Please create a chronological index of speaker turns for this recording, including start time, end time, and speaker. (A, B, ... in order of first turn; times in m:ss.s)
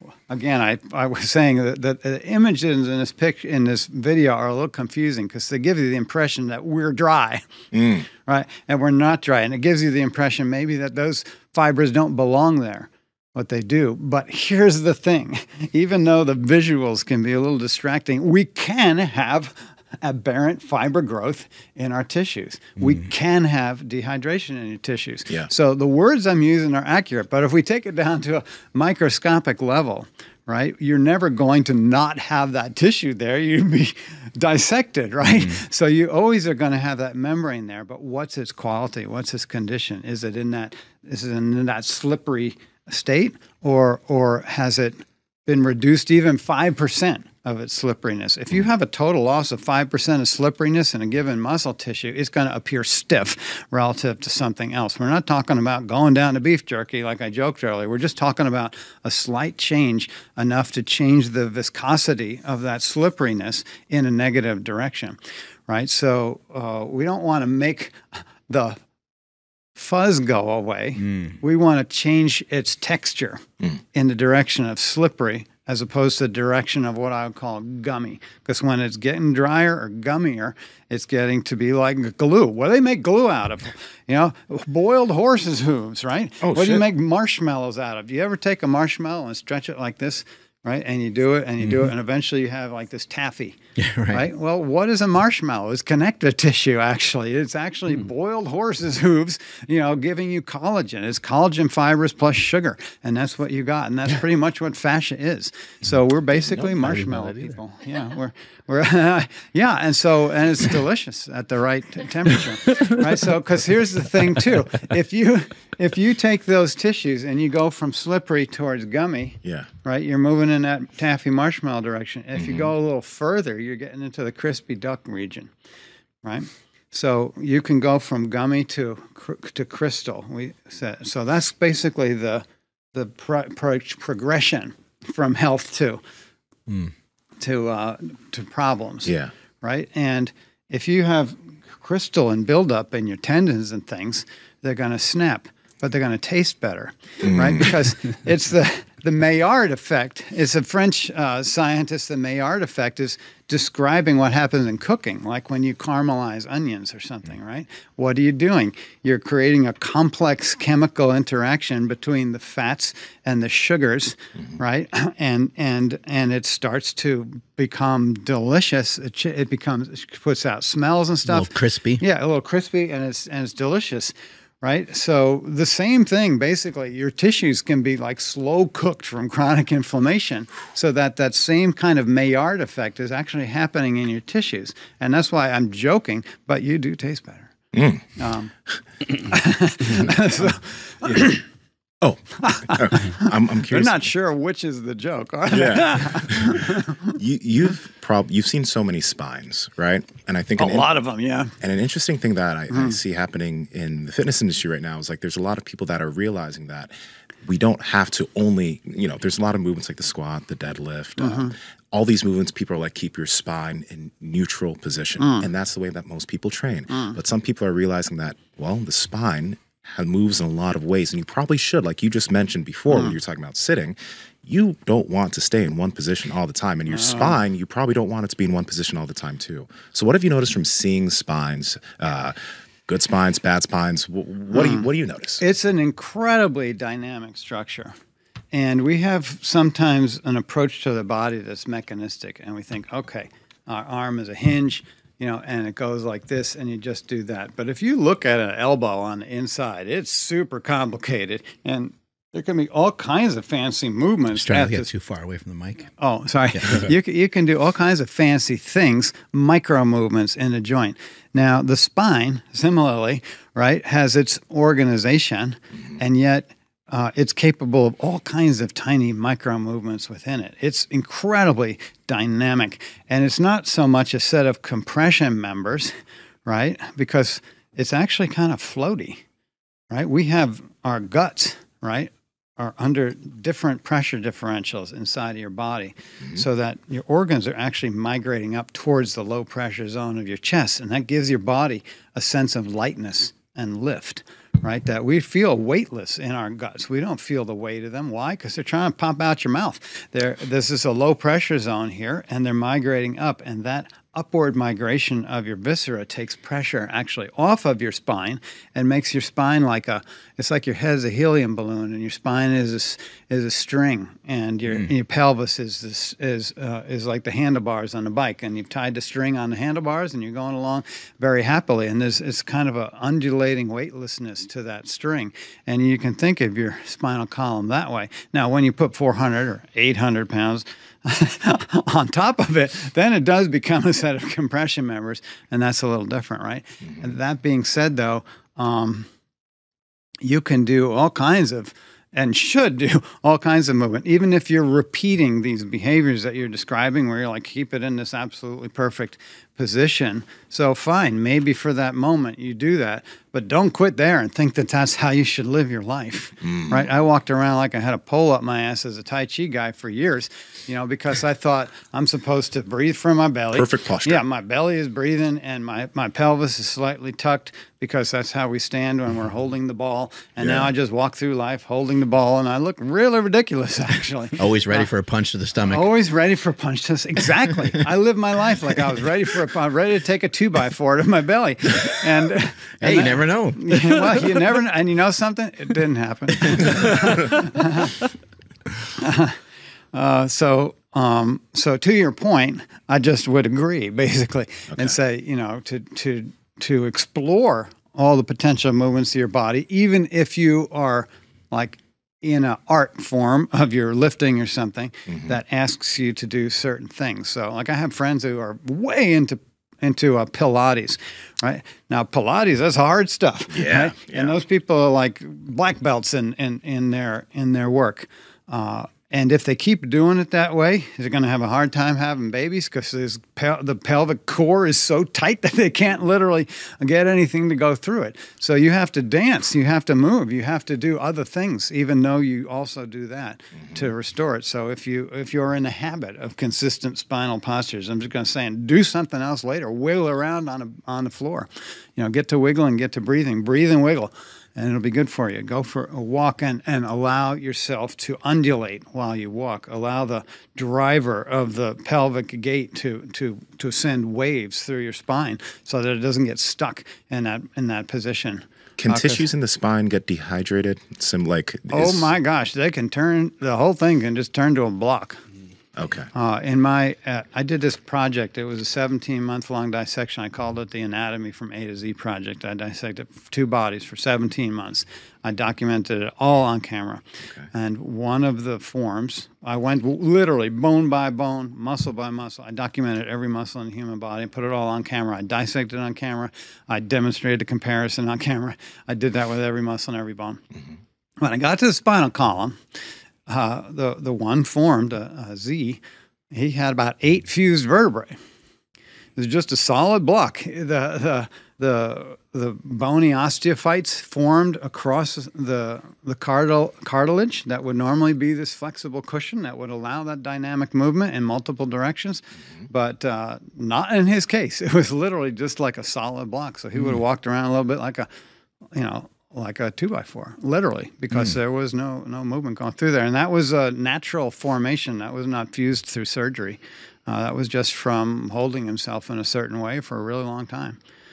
0:00.3-0:07.4 A
0:07.7-0:08.0 B
0:08.3-1:08.8 A
0:35.2-0:35.6 C
1:09.8-1:13.4 A
1:11.0-1:11.4 C
1:13.9-1:33.6 A
1:26.4-1:26.8 B
1:33.8-1:34.3 C
1:34.1-2:05.5 A
1:46.5-1:47.6 C
1:59.4-1:59.7 B
2:02.4-2:02.7 B
2:06.2-2:16.0 A
2:17.4-3:07.5 A
2:19.0-2:19.3 B
2:27.2-2:27.8 B
2:51.3-2:52.0 C
3:07.7-3:08.0 B
3:08.2-3:08.5 A
3:09.3-3:11.4 A
3:09.9-3:10.5 B
3:11.0-3:11.3 B
3:12.0-3:14.0 B
3:12.4-3:17.1 A
3:15.5-3:20.9 B
3:20.6-3:21.5 A
3:21.6-3:26.9 B
3:22.7-3:23.0 A
3:27.4-3:52.4 B
3:31.2-3:31.5 A
3:35.2-3:35.5 A
3:36.9-3:37.2 A
3:42.9-3:43.2 A
3:46.9-3:47.4 A
3:52.9-3:55.4 B
3:54.5-3:54.9 A
3:55.4-3:58.0 A
3:58.5-4:14.9 A
4:14.3-4:15.9 C
4:16.0-4:39.2 A
4:16.5-4:16.8 C
4:39.9-5:39.1 A
5:40.2-6:14.9 A
5:56.4-5:56.9 B
6:03.5-6:04.2 B
6:10.4-6:10.7 B
6:14.4-6:15.9 C
6:15.7-6:28.0 A
6:22.8-6:24.2 C
6:29.0-6:29.4 A
6:29.9-7:39.3 A
6:34.7-6:35.0 B
6:45.1-6:45.4 B
6:53.5-6:54.4 B
7:38.8-7:42.1 B
7:41.7-7:45.2 A
7:45.8-7:46.1 B
7:46.1-8:10.4 A
8:11.2-8:12.6 A
8:13.3-8:18.2 A
8:19.2-8:38.1 A
8:38.7-8:50.8 A